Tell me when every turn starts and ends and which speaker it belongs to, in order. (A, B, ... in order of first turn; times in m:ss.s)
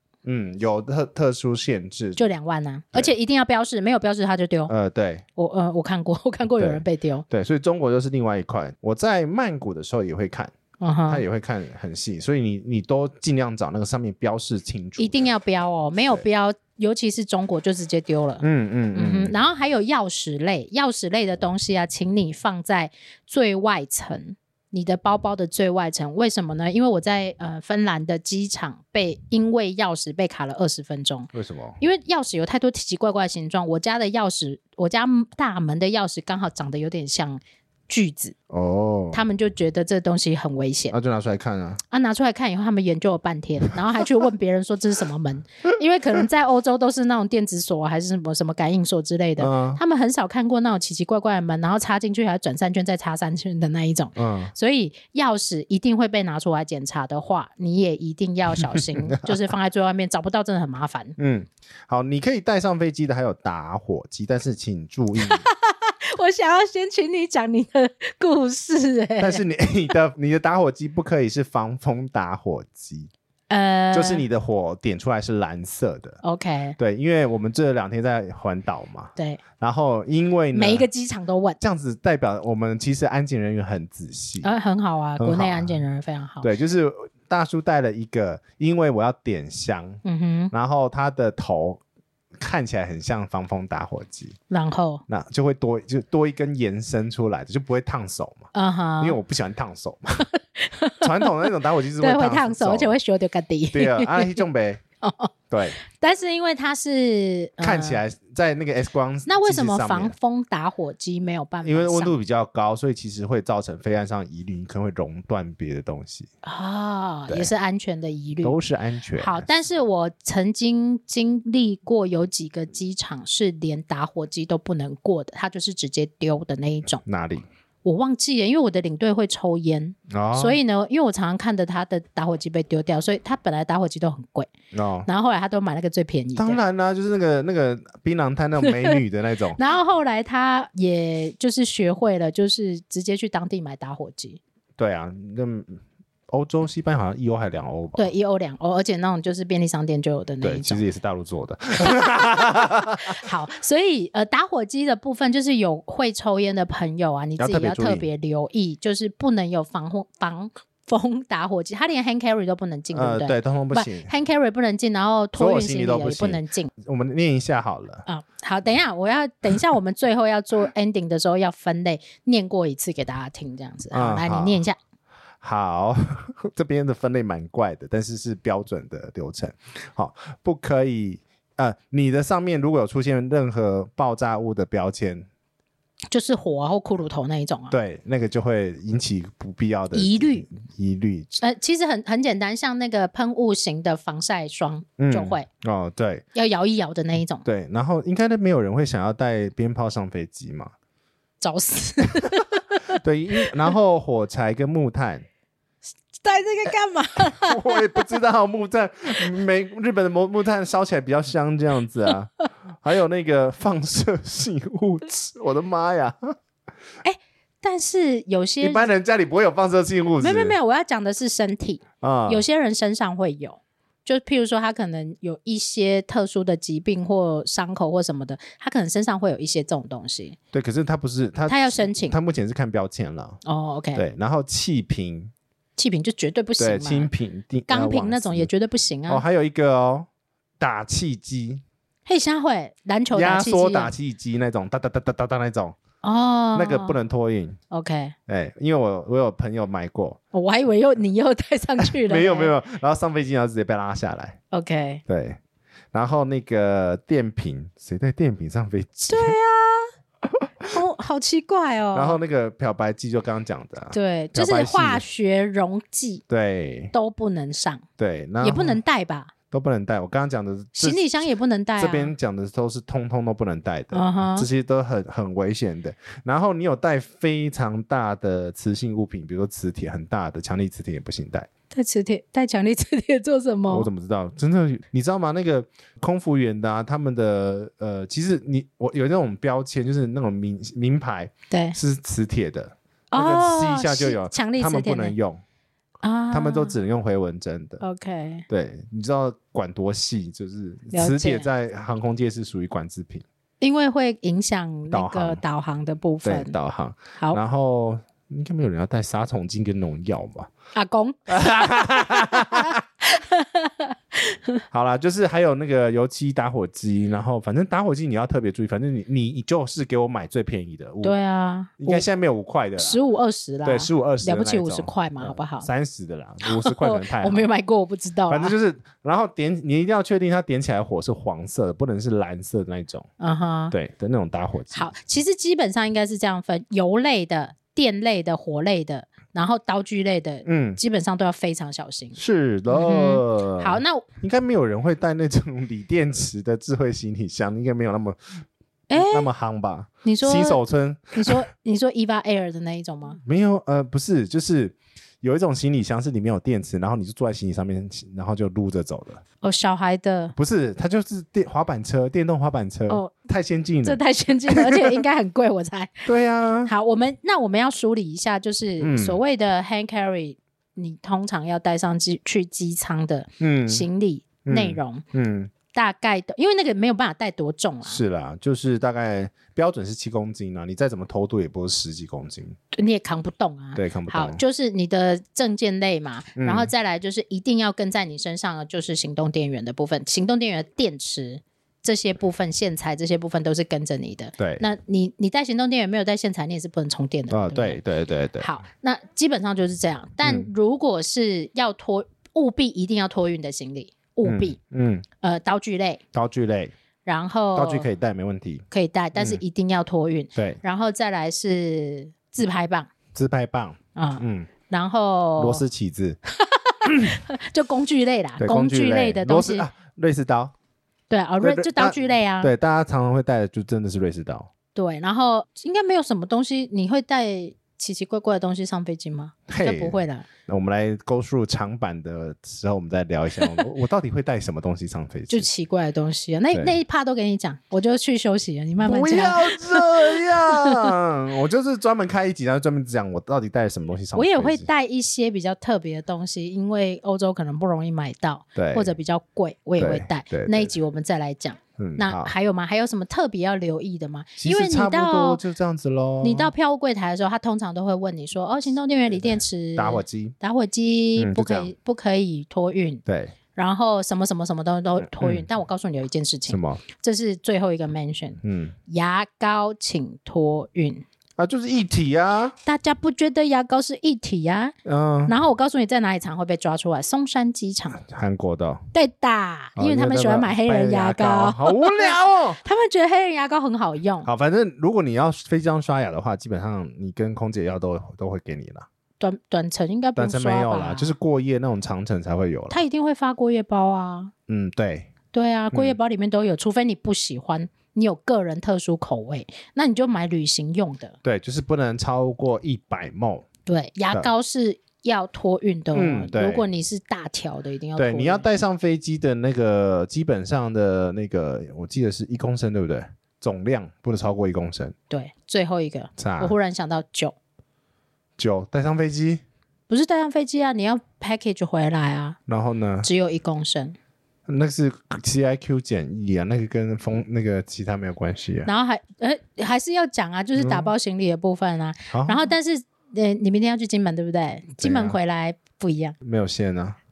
0:00.2-0:02.2 A
0:02.2-0:04.7 B
0:04.7-0:05.2 A
0:05.4-0:07.2 B
0:06.6-0:10.5 A
0:10.8-0:11.2 B
0:11.1-0:15.3 A
0:15.0-0:38.4 B
0:18.4-0:19.4 A
0:31.3-0:31.8 A
0:38.5-0:39.2 A
0:39.1-0:41.0 B
0:40.9-0:41.8 A
0:41.9-1:01.2 B
0:49.4-0:49.8 A
0:54.2-0:54.5 A
0:58.8-0:59.4 A
1:01.2-1:05.4 A
1:05.2-1:09.4 B
1:09.2-1:13.1 A
1:13.5-1:14.2 B
1:13.9-1:16.2 A
1:16.2-1:16.8 B
1:16.8-1:20.9 A
1:20.5-1:21.6 B
1:21.6-1:24.5 A
1:24.4-1:26.5 B
1:25.2-1:25.8 A
1:26.4-1:31.8 A
1:30.0-1:30.5 B
1:32.4-1:34.4 A
1:34.5-1:35.0 B
1:35.1-1:38.5 A
1:38.5-1:39.2 B
1:39.0-1:40.3 A
1:40.6-1:41.3 B
1:41.0-1:43.0 A
1:42.0-1:44.4 B
1:43.7-1:44.8 A
1:45.0-1:48.0 B
1:45.5-1:45.8 A
1:47.6-1:50.2 A
1:49.3-1:52.1 B
1:51.6-1:56.3 A
1:56.4-1:58.6 B
1:58.4-1:59.5 A
1:59.2-2:07.0 B
2:07.0-2:07.4 A
2:07.8-2:14.5 B
2:10.1-2:10.6 A
2:14.7-2:15.1 A
2:15.1-2:16.6 B
2:16.4-2:19.6 A
2:18.6-2:19.0 B
2:19.6-2:24.4 B
2:24.8-2:28.1 A
2:28.0-2:30.8 B
2:30.4-2:33.2 A
2:31.8-2:46.7 B
2:37.4-2:38.1 A
2:42.9-2:44.1 A
2:45.4-2:48.0 A
2:48.1-2:54.8 B
2:53.9-2:54.6 A
2:55.4-3:05.3 A
3:06.1-3:07.7 B
3:07.7-3:11.4 A
3:09.9-3:10.5 B
3:11.4-3:15.5 B
3:15.0-3:16.2 A
3:16.4-3:17.4 B
3:17.4-3:20.7 A
3:21.4-3:23.7 B
3:22.9-3:25.3 A
3:26.2-3:28.1 B
3:27.3-3:36.4 A
3:37.0-3:38.9 B
3:38.6-3:40.6 A
3:40.2-3:50.4 B
3:42.0-3:42.4 A
3:50.5-3:53.4 A
3:51.5-3:52.2 B
3:53.4-3:54.0 B
3:53.9-3:55.3 A
3:55.8-3:57.1 B
3:56.6-3:58.5 A
3:57.7-3:59.2 B
3:59.1-4:00.1 A
4:00.6-4:01.6 A
4:02.1-4:03.9 B
4:03.1-4:05.8 A
4:06.0-4:07.0 B
4:06.6-4:07.6 A
4:07.7-4:08.2 B
4:08.3-4:10.2 A
4:10.3-4:12.5 B
4:11.8-4:14.4 A
4:14.5-4:15.0 B
4:15.1-4:15.4 A
4:15.9-4:19.4 A
4:19.1-4:19.9 B
4:20.2-4:20.8 A
4:20.7-4:22.2 B
4:21.9-4:25.0 A
4:23.9-4:26.2 B
4:26.3-4:26.9 A
4:26.9-4:27.8 B
4:28.0-4:28.8 A
4:28.4-4:29.3 B
4:29.5-4:31.0 A
4:30.8-4:32.1 B
4:31.8-4:41.5 A
4:33.9-4:34.5 B
4:41.7-4:43.9 B
4:43.7-4:55.4 A
4:51.5-4:51.8 B
4:53.1-4:55.2 B
4:56.0-4:56.8 B
4:56.3-4:57.8 A
4:57.8-4:58.4 B
4:58.5-5:03.2 A
5:00.9-5:01.5 B
5:03.6-5:06.5 B
5:04.9-5:05.4 A
5:06.2-5:10.5 A
5:10.7-5:14.6 B
5:11.3-5:12.8 A
5:14.7-5:21.2 A
5:21.0-5:22.0 B
5:21.8-5:23.0 A
5:22.8-5:25.7 B
5:23.6-5:27.5 A
5:26.4-5:28.6 B
5:28.3-5:33.1 A
5:33.2-5:33.8 B
5:33.7-5:34.9 A
5:34.7-5:42.2 B
5:40.4-5:40.8 A
5:42.2-5:48.4 A
5:42.7-5:44.0 B
5:48.9-5:49.3 B
5:49.0-5:51.4 A
5:50.0-5:50.6 B
5:51.1-5:53.2 B
5:53.2-5:59.2 A
5:59.4-6:00.4 B
6:00.4-6:05.0 A
6:02.9-6:03.1 B
6:03.8-6:06.0 B
6:06.0-6:06.7 A
6:06.7-6:15.0 B
6:08.8-6:09.2 A
6:13.4-6:13.9 A
6:14.4-6:15.5 A
6:15.7-6:18.0 B
6:17.9-6:22.6 A
6:22.7-6:37.8 B
6:23.8-6:24.4 A
6:26.4-6:26.7 A
6:34.4-6:34.6 A
6:37.3-6:38.5 A
6:38.4-6:44.6 B
6:40.2-6:40.5 A
6:44.2-6:45.1 A
6:45.2-6:46.0 B
6:46.1-6:46.7 A
6:47.1-6:47.9 B
6:47.6-6:49.4 A
6:48.7-6:52.9 B
6:53.1-6:54.5 A
6:54.0-6:55.6 B
6:55.4-6:56.2 A
6:56.4-6:59.7 B
6:56.9-6:57.2 A
6:58.4-7:00.5 A
7:01.1-7:02.5 B
7:01.4-7:04.5 A
7:04.8-7:10.3 B
7:09.5-7:15.5 A
7:15.3-7:20.9 B
7:18.8-7:24.7 A
7:24.2-7:35.4 B
7:28.6-7:28.9 A
7:29.8-7:30.7 A
7:31.8-7:32.3 A
7:34.4-7:36.5 A
7:36.2-7:43.0 B
7:39.2-7:40.4 A
7:41.2-7:41.7 A
7:43.1-7:43.3 A
7:43.6-7:51.0 B
7:45.0-7:45.4 A
7:46.5-7:46.8 A
7:48.4-7:48.8 A
7:51.4-7:52.6 A
7:52.6-7:54.8 B
7:54.8-7:55.4 A
7:55.3-7:58.0 B
7:58.0-7:58.9 A
7:58.9-8:04.3 B
7:59.8-8:02.6 A
8:04.2-8:08.9 A
8:09.2-8:11.1 B
8:10.2-8:12.8 A
8:12.7-8:14.3 B
8:14.5-8:15.1 A
8:15.3-8:21.2 B
8:21.2-8:23.5 A
8:23.7-8:28.5 B
8:25.9-8:26.6 A
8:28.0-8:35.0 A
8:35.1-8:37.4 B
8:36.2-8:36.6 A
8:38.4-8:39.4 A
8:39.9-8:42.4 B
8:42.5-8:43.1 A
8:43.0-8:44.0 B
8:44.5-8:48.7 A
8:48.7-8:56.2 B
8:50.6-8:50.9 A
8:52.1-8:52.5 A
8:54.8-8:55.2 A
8:56.2-8:57.0 A